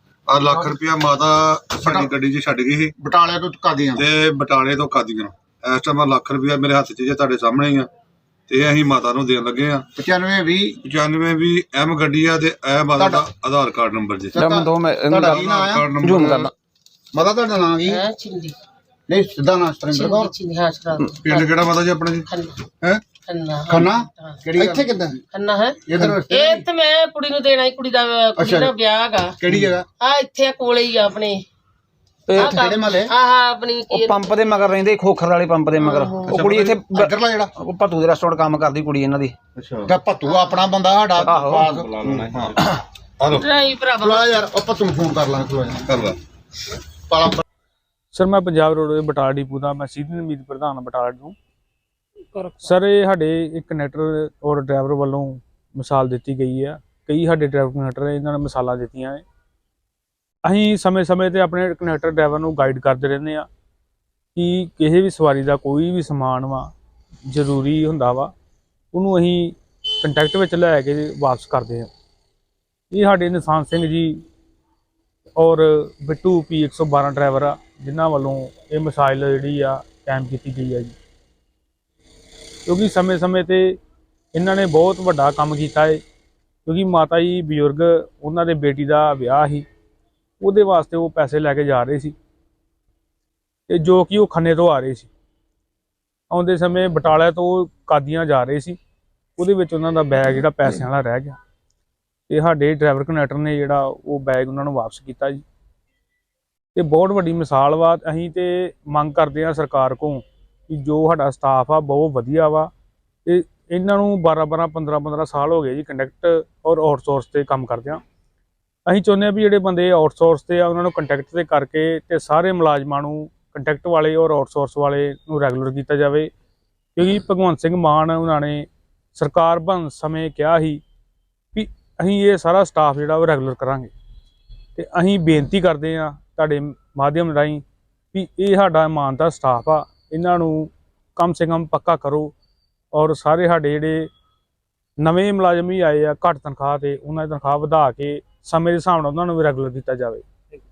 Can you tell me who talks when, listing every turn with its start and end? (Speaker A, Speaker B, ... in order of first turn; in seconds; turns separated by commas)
Speaker A: 0.3-2.9, Speaker B: 1.8-2.1, Speaker B: 3.0-4.0, Speaker A: 4.0-7.9, Speaker A: 8.5-9.9, Speaker B: 10.0-10.8, Speaker A: 10.8-14.4, Speaker B: 13.0-13.2, Speaker C: 14.3-16.5, Speaker B: 14.3-16.0, Speaker A: 15.4-16.5, Speaker B: 17.1-18.0, Speaker D: 17.9-18.6, Speaker B: 19.1-20.3, Speaker D: 19.9-21.6, Speaker A: 21.7-22.2, Speaker D: 22.3-22.6, Speaker D: 23.3-24.4, Speaker B: 23.7-25.2, Speaker C: 24.6-25.0, Speaker D: 25.3-29.4, Speaker B: 25.9-26.6, Speaker B: 28.4-28.7, Speaker B: 29.4-29.9, Speaker D: 30.0-31.4, Speaker B: 32.4-33.1, Speaker D: 32.4-34.3, Speaker C: 33.9-39.4, Speaker D: 35.8-36.4, Speaker B: 36.3-37.5, Speaker A: 39.6-39.9, Speaker B: 39.9-42.4, Speaker D: 40.3-40.6, Speaker C: 41.2-42.5, Speaker A: 43.2-43.5, Speaker D: 43.3-44.4, Speaker B: 44.0-45.9, Speaker A: 45.9-46.2, Speaker B: 47.1-47.4, Speaker E: 48.1-51.4, Speaker E: 52.6-59.2, Speaker E: 60.5-63.5, Speaker E: 64.3-66.7, Speaker E: 67.3-68.3, Speaker E: 68.9-71.9, Speaker E: 72.9-74.2, Speaker E: 75.4-81.0, Speaker E: 82.7-83.8, Speaker E: 84.3-86.0, Speaker E: 86.7-89.7, Speaker E: 90.4-92.2, Speaker E: 93.7-95.1, Speaker E: 96.3-98.8, Speaker E: 99.4-101.4, Speaker E: 102.3-105.4, Speaker E: 106.8-112.7, Speaker E: 113.2-118.0, Speaker E: 118.9-126.3, Speaker E: 127.0-130.8, Speaker E: 131.5-133.9, Speaker E: 134.8-142.3, Speaker E: 142.9-144.1, Speaker E: 145.0-150.2